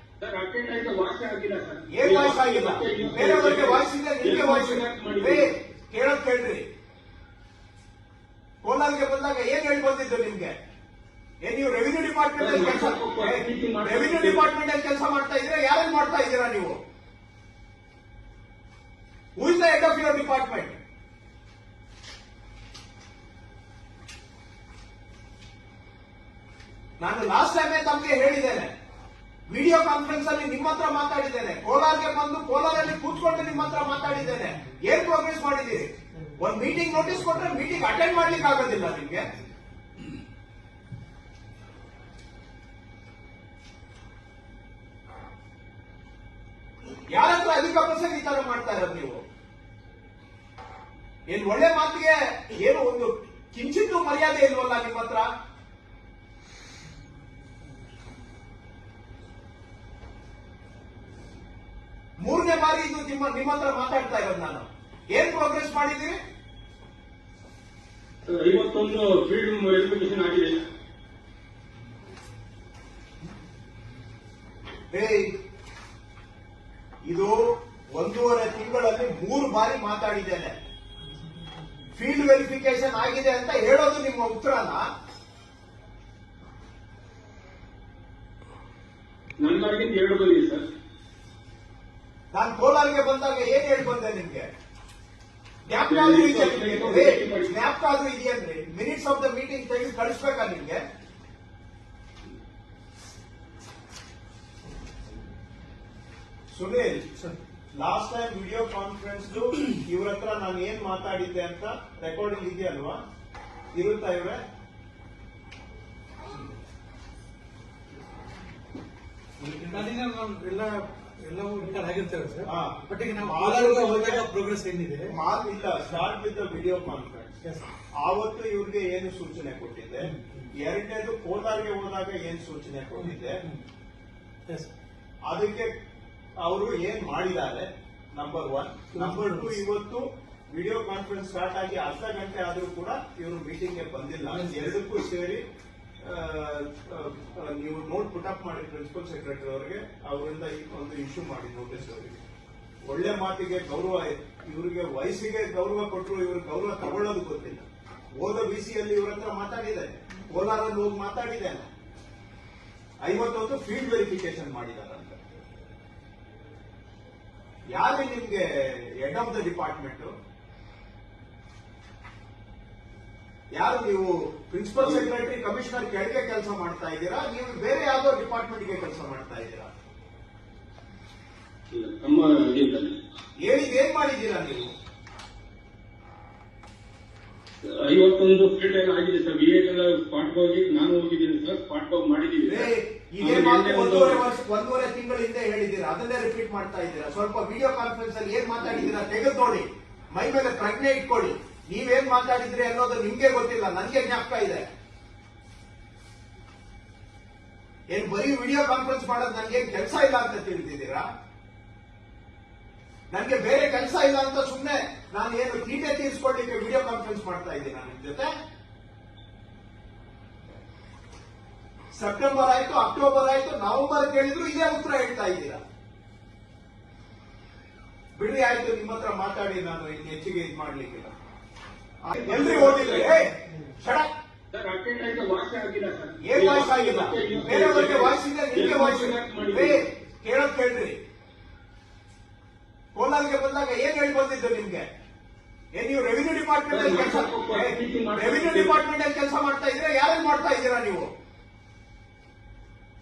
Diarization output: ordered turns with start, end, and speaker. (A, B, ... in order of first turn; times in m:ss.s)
0:00.2-0:05.4 A
0:01.9-0:06.6 B
0:08.6-0:10.5 B
0:11.4-0:16.8 B
0:12.4-0:14.4 A
0:19.4-0:20.8 B
0:27.0-0:28.7 B
0:29.5-0:39.2 B
0:47.1-0:49.2 B
0:51.3-0:55.3 B
1:02.2-1:06.2 B
1:08.3-1:10.6 A
1:14.9-1:15.3 B
1:17.0-1:17.4 B
1:17.9-1:20.5 B
1:21.9-1:24.9 B
1:29.4-1:30.6 A
1:32.3-1:34.4 B
1:35.6-1:40.8 B
1:35.9-1:37.5 A
1:46.5-1:47.1 B
1:47.7-1:53.0 B
1:53.7-1:54.4 B
1:59.4-2:05.1 C
2:02.4-2:04.2 B
2:05.1-2:07.3 B
2:07.9-2:13.4 B
2:10.0-2:10.5 C
2:13.0-2:13.6 C
2:15.2-2:15.7 B
2:16.4-2:25.4 B
2:18.9-2:19.6 C
2:24.3-2:24.7 C
2:26.0-2:32.2 B
2:32.8-2:37.6 B
2:38.2-2:41.7 B
2:43.0-2:45.2 B
2:47.7-2:50.1 B
2:53.5-2:59.7 B
2:54.8-2:55.0 A
3:01.7-3:02.9 A
3:03.4-3:04.7 B
3:07.6-3:14.2 A
3:12.5-3:24.6 B
3:27.9-3:31.0 B
3:33.1-3:38.3 B
3:41.9-3:45.6 B
3:48.2-3:51.1 B
3:52.0-3:54.1 B
3:52.1-3:53.1 A
3:54.5-3:59.8 A
3:56.2-4:01.0 B
4:02.9-4:04.8 B
4:05.7-4:11.1 B
4:06.7-4:08.8 A